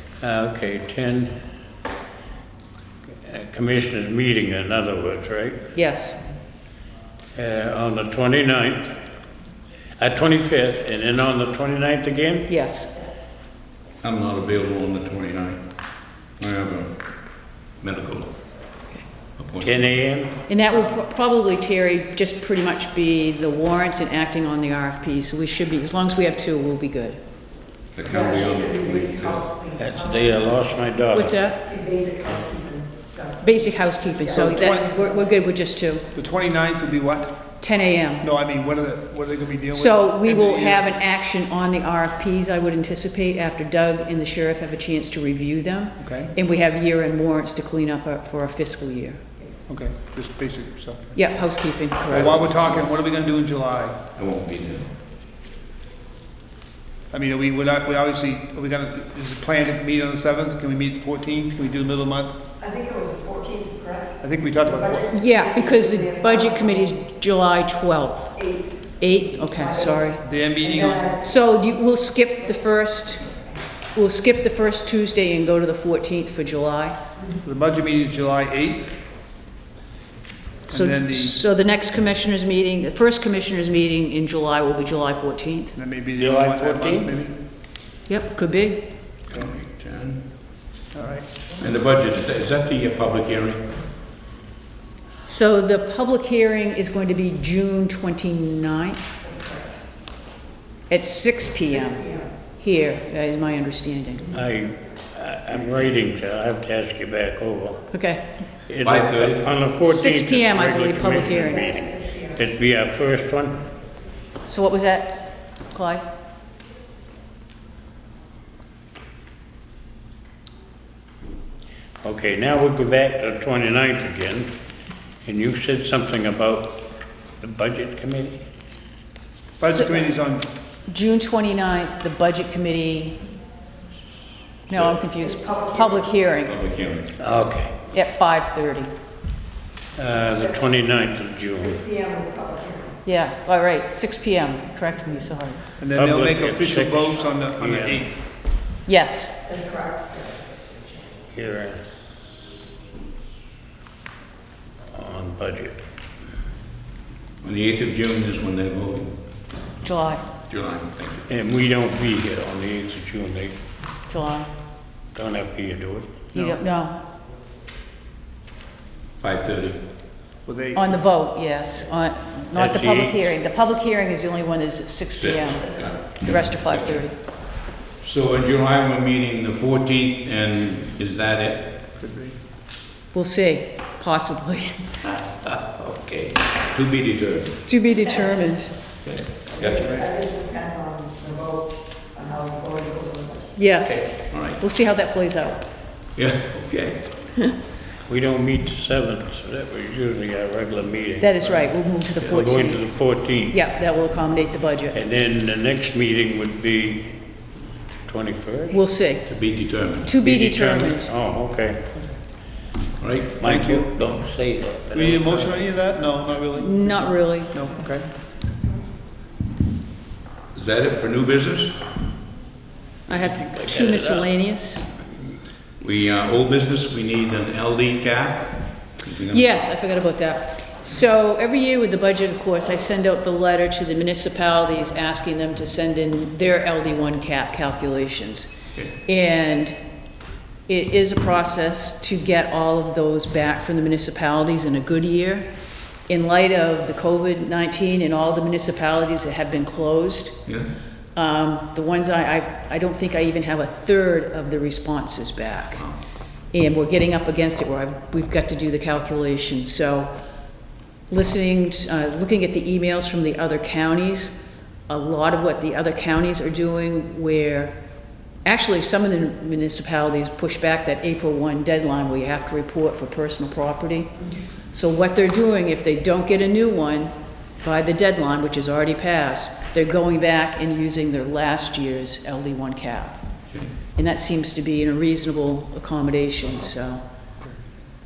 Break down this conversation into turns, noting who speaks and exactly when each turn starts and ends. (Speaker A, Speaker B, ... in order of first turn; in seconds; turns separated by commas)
Speaker A: 0.2-1.3, Speaker A: 3.2-5.7, Speaker B: 5.7-6.2, Speaker A: 7.3-8.9, Speaker A: 10.0-12.5, Speaker B: 12.5-12.9, Speaker C: 14.0-15.6, Speaker C: 16.4-16.9, Speaker C: 17.8-18.3, Speaker C: 19.4-19.9, Speaker A: 19.6-20.4, Speaker B: 20.5-27.2, Speaker C: 27.9-29.5, Speaker A: 29.7-31.4, Speaker B: 31.1-31.7, Speaker D: 31.9-32.8, Speaker B: 33.4-36.0, Speaker E: 34.3-35.1, Speaker E: 36.1-37.3, Speaker B: 37.6-38.2, Speaker E: 38.2-40.9, Speaker B: 39.7-49.2, Speaker E: 46.0-46.3, Speaker E: 49.7-51.2, Speaker B: 51.1-52.3, Speaker E: 52.1-54.0, Speaker C: 52.1-53.0, Speaker C: 54.1-54.9, Speaker E: 57.1-62.4, Speaker D: 62.7-63.9, Speaker E: 64.2-65.1, Speaker B: 65.1-70.2, Speaker E: 70.2-71.1, Speaker B: 71.1-73.4, Speaker B: 73.9-77.0, Speaker E: 77.4-78.9, Speaker E: 80.7-81.4, Speaker B: 80.7-85.7, Speaker E: 85.8-87.3, Speaker A: 86.2-87.1, Speaker B: 88.1-88.8, Speaker C: 89.3-90.2, Speaker E: 90.9-91.3, Speaker C: 91.6-93.6, Speaker B: 95.2-99.0, Speaker B: 100.9-104.3, Speaker A: 104.3-107.8, Speaker B: 107.9-108.2, Speaker A: 108.7-113.6, Speaker C: 108.8-109.5, Speaker B: 109.8-111.7, Speaker B: 114.5-116.0, Speaker A: 122.0-124.5, Speaker A: 125.2-126.8, Speaker A: 127.4-128.4, Speaker E: 129.6-130.4, Speaker B: 129.7-130.0, Speaker B: 130.9-133.2, Speaker C: 134.7-135.0, Speaker B: 134.7-136.5, Speaker C: 136.4-137.2, Speaker A: 137.2-137.8, Speaker B: 137.9-138.9, Speaker A: 139.9-142.0, Speaker D: 141.9-142.6, Speaker B: 143.0-145.6, Speaker E: 145.8-148.2, Speaker A: 145.9-148.0, Speaker B: 148.8-149.3, Speaker A: 151.3-151.8, Speaker A: 154.9-155.8, Speaker C: 157.4-159.2, Speaker B: 159.8-160.2, Speaker C: 160.4-161.2, Speaker A: 161.3-163.5, Speaker B: 164.1-164.5, Speaker A: 165.1-166.3, Speaker B: 166.3-167.0, Speaker C: 169.2-169.8, Speaker E: 170.4-171.0, Speaker B: 170.7-177.1, Speaker A: 172.5-173.3, Speaker C: 175.1-177.1, Speaker C: 178.0-181.7, Speaker E: 182.0-182.3, Speaker B: 183.1-184.9, Speaker C: 185.0-187.6, Speaker B: 187.7-188.7, Speaker C: 189.0-190.1, Speaker D: 190.7-191.6, Speaker D: 192.3-193.3, Speaker B: 193.5-195.6, Speaker C: 193.9-194.6, Speaker C: 196.2-197.1, Speaker A: 198.1-203.6, Speaker B: 201.2-205.0, Speaker A: 204.9-207.1, Speaker A: 208.0-208.8, Speaker B: 208.7-209.3, Speaker C: 209.2-210.2, Speaker B: 210.0-211.1, Speaker A: 210.2-211.8, Speaker C: 213.0-213.4, Speaker A: 213.4-215.6, Speaker E: 213.4-213.9, Speaker E: 214.9-218.1, Speaker B: 216.5-217.5, Speaker C: 220.5-221.8, Speaker B: 223.1-224.9, Speaker A: 223.1-224.3, Speaker C: 225.8-229.6, Speaker B: 229.3-238.5, Speaker B: 239.0-239.8, Speaker B: 240.7-245.5, Speaker B: 246.1-250.4, Speaker C: 250.4-250.7, Speaker B: 251.2-255.8, Speaker B: 256.5-260.1, Speaker B: 261.1-264.3, Speaker B: 264.9-267.8, Speaker B: 268.4-274.2, Speaker B: 274.7-283.2, Speaker B: 283.9-287.0